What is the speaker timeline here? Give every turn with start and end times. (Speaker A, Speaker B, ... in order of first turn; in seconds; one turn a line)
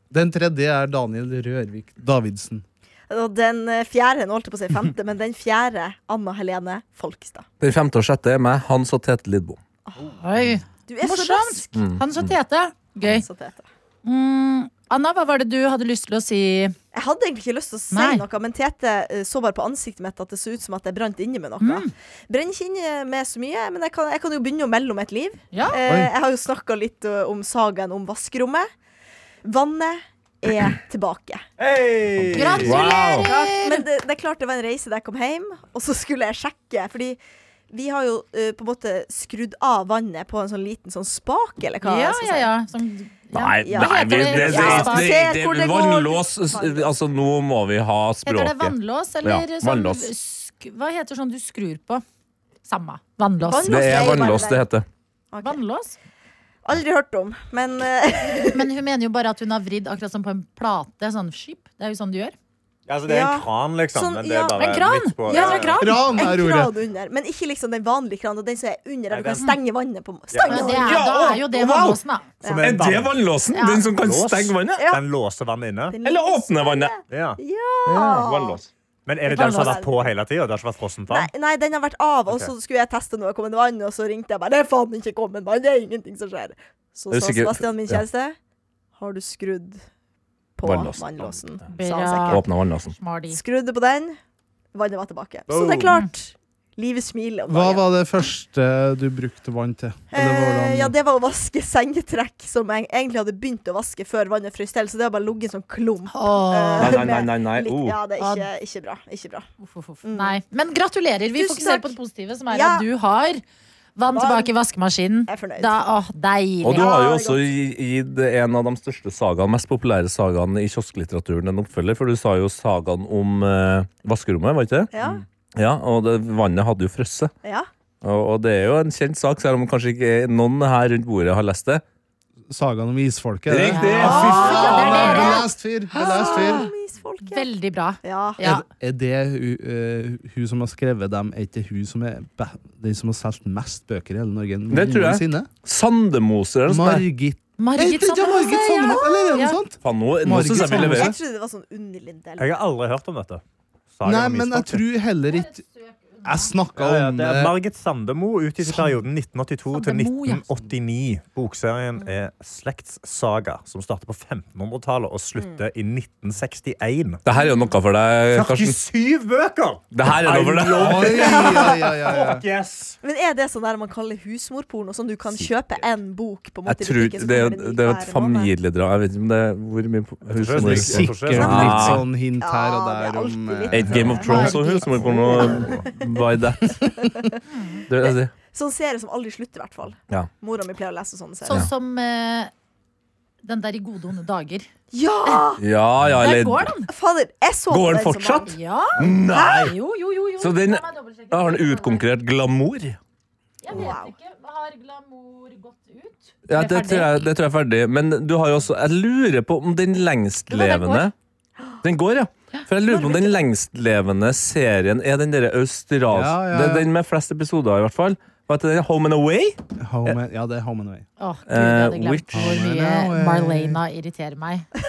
Speaker A: 0.1-2.6
Speaker B: 3.1-7.5
Speaker C: 7.6-9.6
Speaker B: 9.9-10.2
Speaker D: 10.2-13.2
Speaker B: 10.9-11.8
Speaker C: 11.7-12.3
Speaker B: 13.0-13.7
Speaker D: 14.0-16.8
Speaker B: 16.9-28.7
Speaker D: 17.9-18.2
Speaker D: 21.6-21.9
Speaker D: 25.5-25.8
Speaker A: 25.8-26.1
Speaker B: 29.4-31.4
Speaker E: 31.6-32.8
Speaker D: 32.3-33.9
Speaker C: 32.6-33.3
Speaker B: 33.2-37.2
Speaker B: 37.7-42.5
Speaker D: 41.8-45.1
Speaker C: 43.3-50.1
Speaker B: 43.6-46.9
Speaker D: 48.2-52.0
Speaker D: 52.6-54.0
Speaker B: 53.4-54.7
Speaker C: 53.6-54.9
Speaker B: 55.3-55.6
Speaker D: 55.4-56.0
Speaker B: 56.6-58.7
Speaker D: 58.5-62.4
Speaker E: 62.9-65.9
Speaker B: 63.1-64.6
Speaker D: 64.6-66.0
Speaker B: 65.2-71.1
Speaker A: 65.8-66.7
Speaker E: 69.1-69.5
Speaker E: 70.3-70.8
Speaker D: 70.5-72.3
Speaker C: 70.8-72.0
Speaker B: 72.4-72.9
Speaker E: 72.5-73.2
Speaker C: 72.5-74.8
Speaker D: 73.5-73.9
Speaker E: 74.0-76.0
Speaker B: 74.8-75.0
Speaker B: 75.9-78.6
Speaker C: 76.0-76.9
Speaker E: 77.1-77.4
Speaker C: 77.8-78.7
Speaker E: 79.0-81.3
Speaker D: 79.3-79.8
Speaker B: 79.3-80.1
Speaker B: 81.1-88.3
Speaker E: 82.3-82.5
Speaker C: 87.1-88.0
Speaker B: 89.0-89.8
Speaker B: 90.6-92.4
Speaker C: 90.6-91.2
Speaker D: 91.7-93.4
Speaker C: 92.3-92.9
Speaker B: 93.3-94.2
Speaker B: 94.7-97.8
Speaker E: 95.5-95.9
Speaker A: 97.5-100.9
Speaker B: 100.1-109.5
Speaker D: 106.1-107.1
Speaker C: 106.8-108.0
Speaker D: 108.2-108.5
Speaker D: 109.6-113.4
Speaker B: 110.0-110.4
Speaker B: 111.3-112.0
Speaker B: 112.5-112.8
Speaker D: 114.0-116.9
Speaker B: 114.1-114.5
Speaker B: 115.3-115.8
Speaker C: 116.6-124.9
Speaker B: 116.7-117.4
Speaker B: 124.9-125.2
Speaker C: 125.5-127.3
Speaker C: 128.0-131.8
Speaker A: 132.5-136.7
Speaker C: 133.5-135.4
Speaker D: 133.7-136.7
Speaker B: 134.0-135.5
Speaker B: 136.0-137.5
Speaker D: 137.2-138.6
Speaker B: 138.0-138.4
Speaker A: 138.4-145.5
Speaker C: 144.7-147.1
Speaker A: 146.7-151.1
Speaker D: 147.6-149.6
Speaker C: 149.8-151.1
Speaker B: 150.9-152.5
Speaker E: 152.4-153.4
Speaker E: 153.9-154.8
Speaker A: 154.0-155.6
Speaker D: 155.3-156.5
Speaker A: 156.2-157.6
Speaker E: 156.8-167.2
Speaker D: 159.7-160.4
Speaker C: 167.2-168.8
Speaker E: 168.3-173.0
Speaker C: 169.9-171.2
Speaker A: 170.8-172.4
Speaker B: 171.2-171.8
Speaker B: 173.0-178.5
Speaker C: 176.7-182.0
Speaker E: 180.3-182.0
Speaker A: 180.5-184.2
Speaker B: 182.4-186.2
Speaker C: 183.7-186.7
Speaker D: 184.3-184.8
Speaker B: 186.7-187.4
Speaker D: 187.5-187.8
Speaker C: 187.9-188.3
Speaker B: 187.9-191.6
Speaker D: 191.4-192.5
Speaker D: 193.4-194.7
Speaker B: 194.9-195.6
Speaker C: 195.6-196.7
Speaker D: 196.2-196.9
Speaker B: 196.9-199.7
Speaker C: 197.7-199.7
Speaker D: 198.5-202.1
Speaker C: 200.4-203.0
Speaker D: 203.6-207.3
Speaker B: 203.7-204.1
Speaker C: 206.5-211.1
Speaker D: 210.5-211.1
Speaker C: 211.8-219.6
Speaker B: 212.8-213.4
Speaker A: 216.1-216.9
Speaker A: 219.8-221.1
Speaker D: 221.2-224.7
Speaker C: 221.5-222.6
Speaker A: 222.3-223.8